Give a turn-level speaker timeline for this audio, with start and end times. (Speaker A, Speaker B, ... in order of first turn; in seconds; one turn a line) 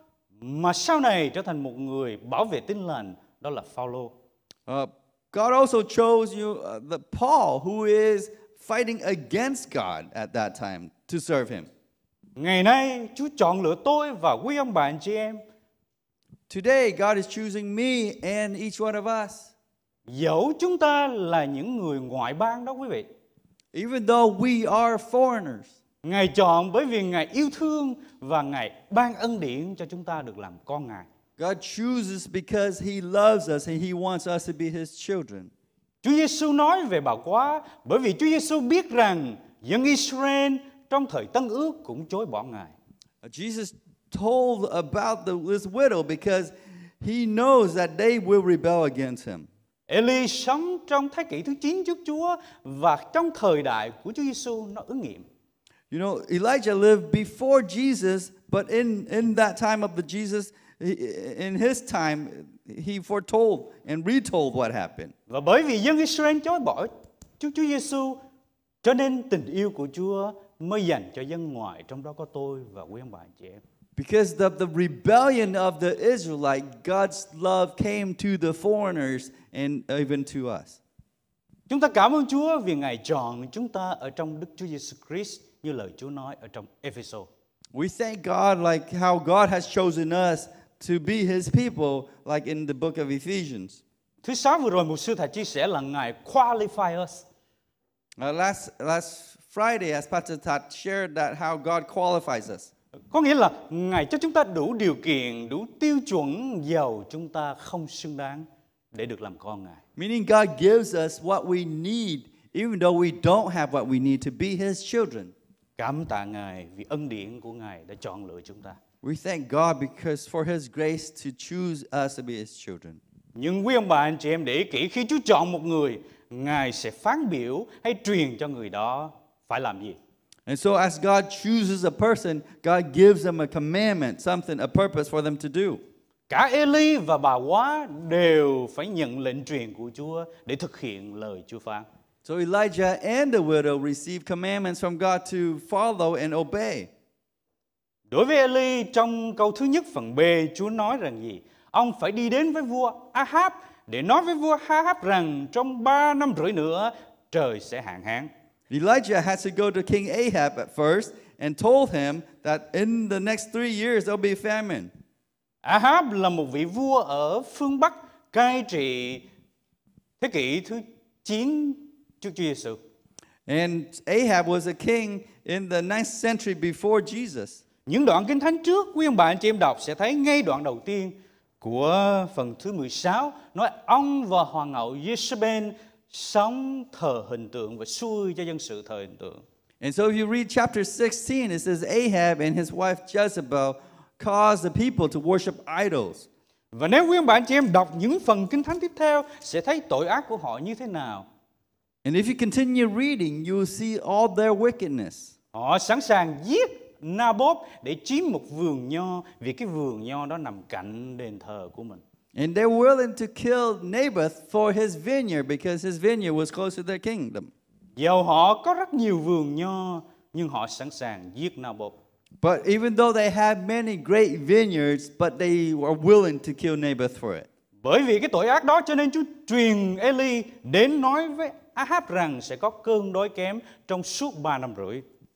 Speaker A: 0.4-4.1
Speaker B: 4.7-11.7
Speaker A: 12.3-15.4
Speaker B: 16.5-19.5
Speaker A: 20.1-23.1
Speaker B: 23.7-25.7
Speaker A: 26.0-31.1
Speaker B: 31.4-35.5
Speaker A: 36.0-42.7
Speaker B: 43.2-49.5
Speaker A: 49.9-55.2
Speaker B: 55.9-65.1
Speaker A: 65.3-68.2
Speaker A: 68.8-73.6
Speaker B: 74.0-80.8
Speaker A: 81.7-87.3
Speaker B: 87.7-93.8
Speaker A: 94.2-97.2
Speaker B: 98.2-102.7
Speaker A: 103.1-109.8
Speaker B: 110.0-115.3
Speaker A: 115.8-118.8
Speaker B: 119.0-123.0
Speaker A: 123.3-130.0
Speaker B: 130.5-135.8
Speaker A: 136.3-141.8
Speaker B: 142.2-146.9
Speaker A: 148.1-158.3
Speaker B: 158.7-164.9
Speaker A: 165.6-169.2
Speaker A: 170.2-172.8
Speaker B: 173.5-177.6
Speaker A: 177.8-189.4
Speaker B: 189.8-196.3
Speaker A: 196.7-201.3
Speaker B: 202.0-205.3
Speaker A: 205.5-212.0
Speaker B: 212.3-217.5
Speaker A: 218.0-221.9
Speaker B: 222.4-227.5
Speaker A: 227.8-235.0